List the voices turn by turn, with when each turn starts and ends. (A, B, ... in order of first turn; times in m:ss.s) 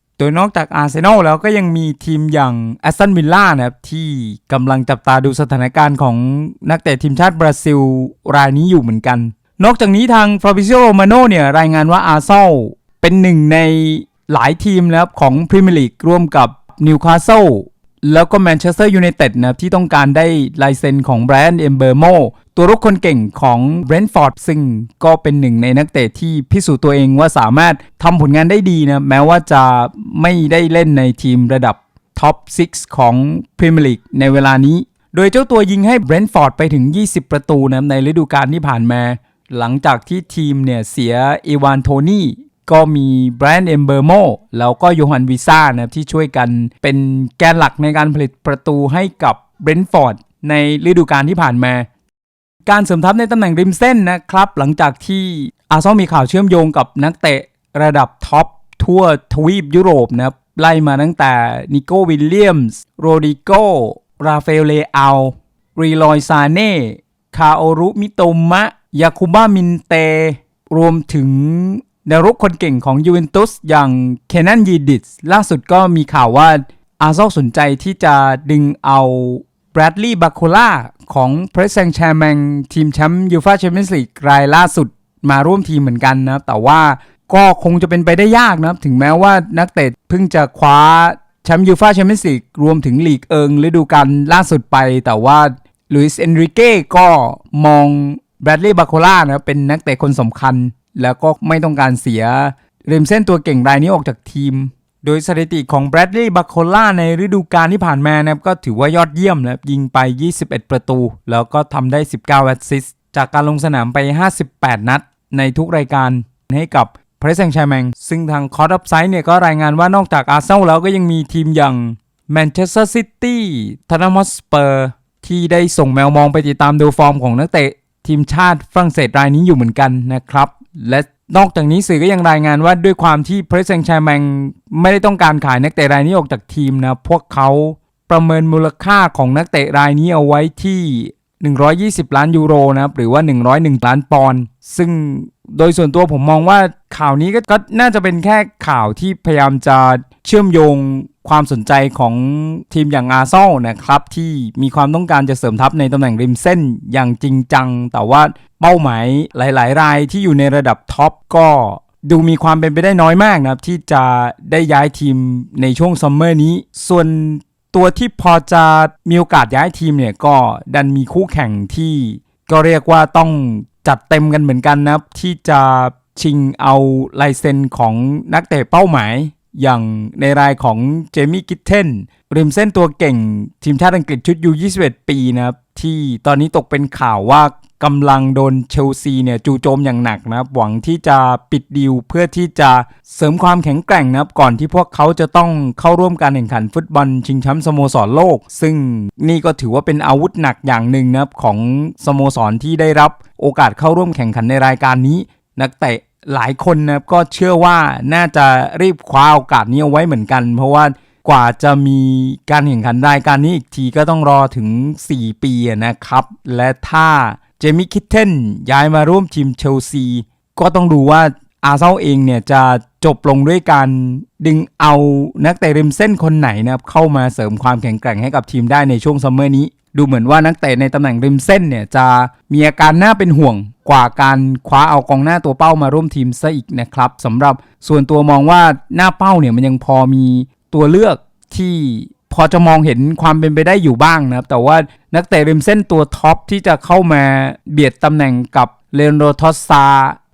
0:00.2-0:51.9 A
0:52.7-4:10.2 A